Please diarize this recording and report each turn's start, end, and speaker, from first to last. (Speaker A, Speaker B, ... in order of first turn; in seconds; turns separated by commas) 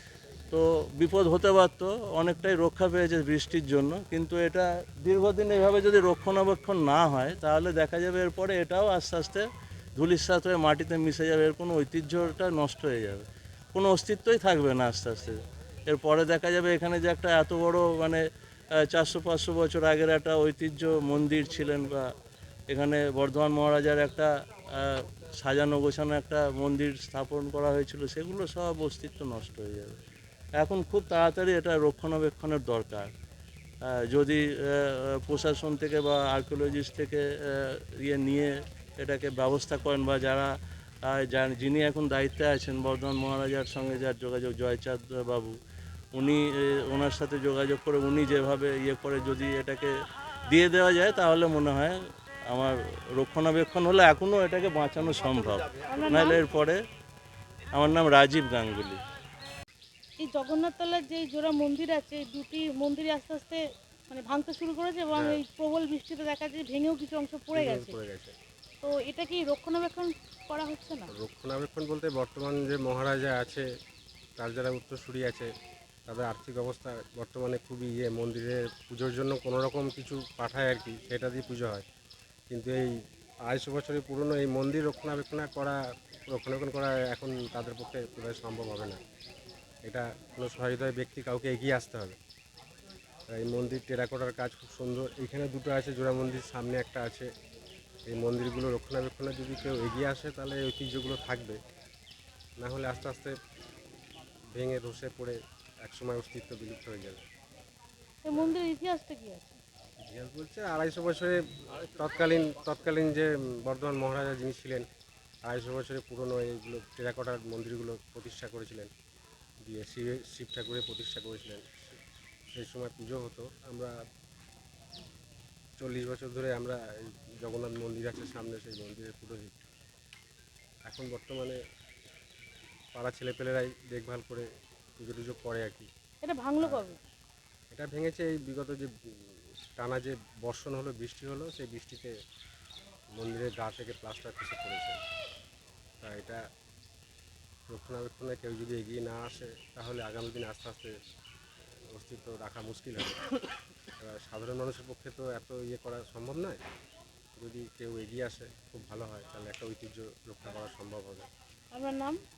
Speaker A: 0.5-9.5, Speaker A: 10.0-18.2, Speaker A: 18.9-22.1, Speaker A: 22.7-29.9, Speaker A: 30.6-33.1, Speaker A: 34.1-40.5, Speaker A: 41.1-45.5, Speaker A: 46.1-49.9, Speaker A: 50.5-52.0, Speaker A: 52.5-56.8, Speaker B: 55.9-56.4, Speaker A: 57.8-59.0, Speaker B: 60.2-68.0, Speaker C: 65.1-65.4, Speaker C: 67.5-68.3, Speaker B: 68.8-71.1, Speaker C: 71.1-73.7, Speaker C: 74.4-75.5, Speaker C: 76.1-81.8, Speaker C: 82.5-82.9, Speaker C: 83.5-89.0, Speaker C: 89.9-92.2, Speaker C: 93.3-97.3, Speaker C: 98.1-101.6, Speaker C: 102.6-103.3, Speaker C: 104.5-107.2, Speaker B: 108.2-109.6, Speaker C: 110.0-114.9, Speaker C: 115.5-118.9, Speaker C: 119.7-122.0, Speaker C: 122.5-123.9, Speaker C: 125.8-129.7, Speaker C: 130.9-131.6, Speaker C: 132.9-134.5, Speaker C: 135.0-135.9, Speaker B: 136.2-137.0, Speaker C: 137.7-138.9, Speaker C: 139.8-142.1, Speaker C: 143.2-145.0, Speaker C: 146.0-146.4, Speaker C: 147.7-150.9, Speaker C: 151.9-153.2, Speaker C: 154.0-156.6, Speaker C: 157.4-161.3, Speaker B: 161.7-162.2